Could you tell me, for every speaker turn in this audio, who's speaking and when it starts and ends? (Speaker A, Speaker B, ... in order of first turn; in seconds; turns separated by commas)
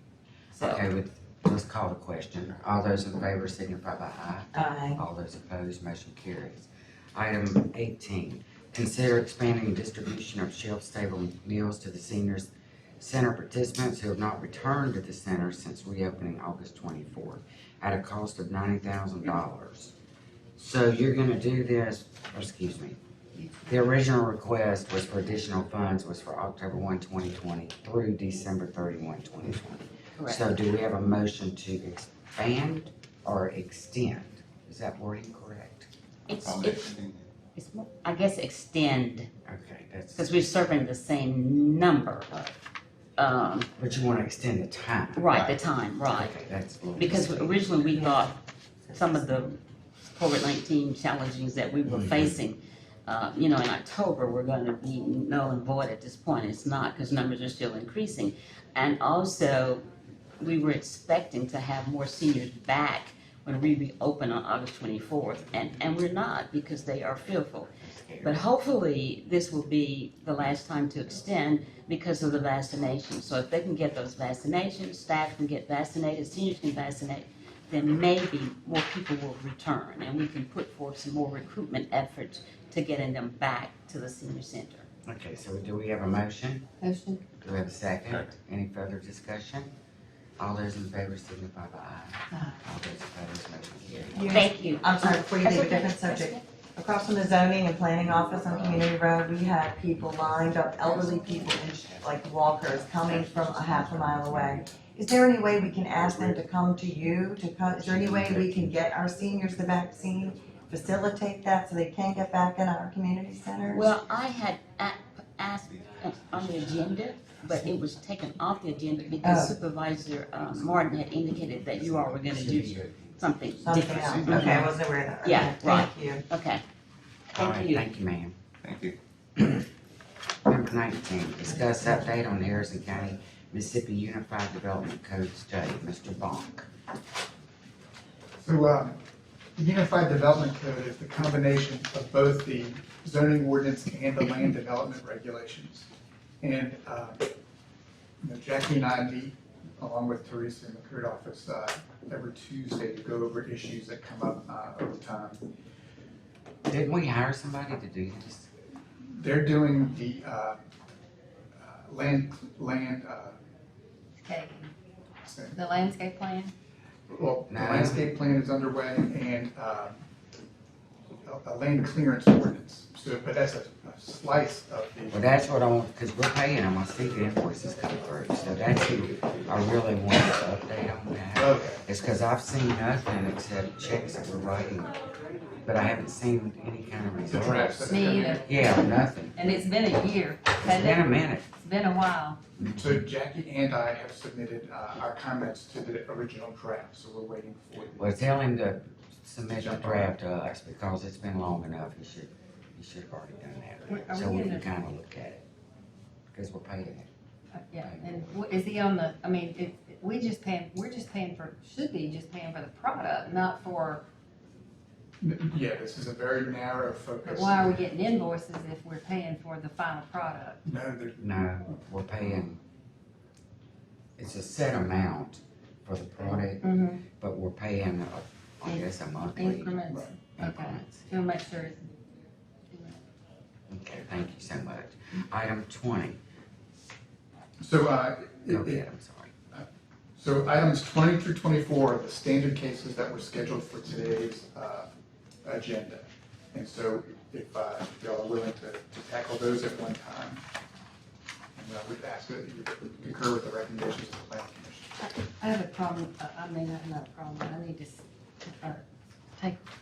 Speaker A: 0.5-0.8, Speaker B: 0.6-19.9, Speaker C: 4.5-5.0, Speaker B: 20.6-23.0, Speaker D: 23.4-23.8, Speaker B: 23.7-35.9, Speaker A: 30.2-30.5, Speaker A: 36.3-37.0, Speaker E: 36.4-37.3, Speaker A: 37.5-39.3, Speaker B: 39.5-40.4, Speaker A: 40.1-42.5, Speaker A: 43.2-43.7, Speaker B: 43.8-45.5, Speaker A: 45.1-46.3, Speaker B: 46.1-47.7, Speaker A: 47.0-48.4, Speaker A: 48.9-59.9, Speaker B: 51.9-52.4, Speaker A: 60.4-67.7, Speaker B: 67.8-68.4, Speaker A: 68.2-84.9, Speaker B: 85.1-86.7, Speaker D: 86.8-87.2, Speaker B: 87.4-89.7, Speaker B: 90.4-94.3, Speaker C: 94.1-113.9, Speaker A: 94.3-96.4, Speaker B: 100.8-101.5, Speaker B: 103.0-104.5, Speaker B: 107.8-108.7, Speaker A: 113.7-126.6, Speaker E: 115.8-116.8, Speaker C: 119.2-119.5, Speaker B: 121.8-123.2, Speaker E: 122.4-122.9, Speaker C: 123.6-126.2, Speaker E: 123.8-124.4, Speaker A: 127.3-127.9, Speaker B: 127.3-128.4, Speaker E: 128.6-128.9, Speaker B: 129.4-129.7, Speaker B: 130.5-136.7, Speaker F: 138.4-139.0, Speaker F: 139.6-145.9, Speaker F: 146.4-147.3, Speaker F: 148.2-155.4, Speaker B: 156.7-158.5, Speaker F: 159.2-160.6, Speaker F: 161.6-163.3, Speaker D: 164.2-164.7, Speaker F: 165.2-165.6, Speaker D: 165.5-166.5, Speaker F: 167.1-170.0, Speaker B: 167.5-168.1, Speaker F: 171.2-175.2, Speaker B: 175.1-184.9, Speaker F: 181.3-181.8, Speaker B: 185.7-189.4, Speaker F: 187.3-188.5, Speaker D: 187.9-192.4, Speaker B: 190.6-191.5, Speaker B: 192.6-192.9, Speaker F: 192.7-198.1, Speaker B: 198.0-205.4, Speaker F: 199.6-200.1, Speaker D: 203.9-204.7, Speaker B: 206.3-207.1, Speaker D: 207.6-214.1, Speaker B: 207.8-208.2, Speaker F: 215.2-217.9, Speaker D: 217.2-220.6, Speaker F: 220.7-221.3, Speaker B: 221.2-222.6, Speaker B: 224.2-229.8, Speaker D: 226.2-227.1, Speaker D: 228.7-232.0, Speaker B: 230.4-231.2, Speaker D: 232.7-233.0, Speaker B: 233.7-236.2, Speaker F: 237.6-238.8, Speaker B: 238.5-239.3, Speaker F: 239.5-244.9, Speaker F: 245.4-250.4, Speaker F: 251.6-254.9, Speaker D: 255.0-258.8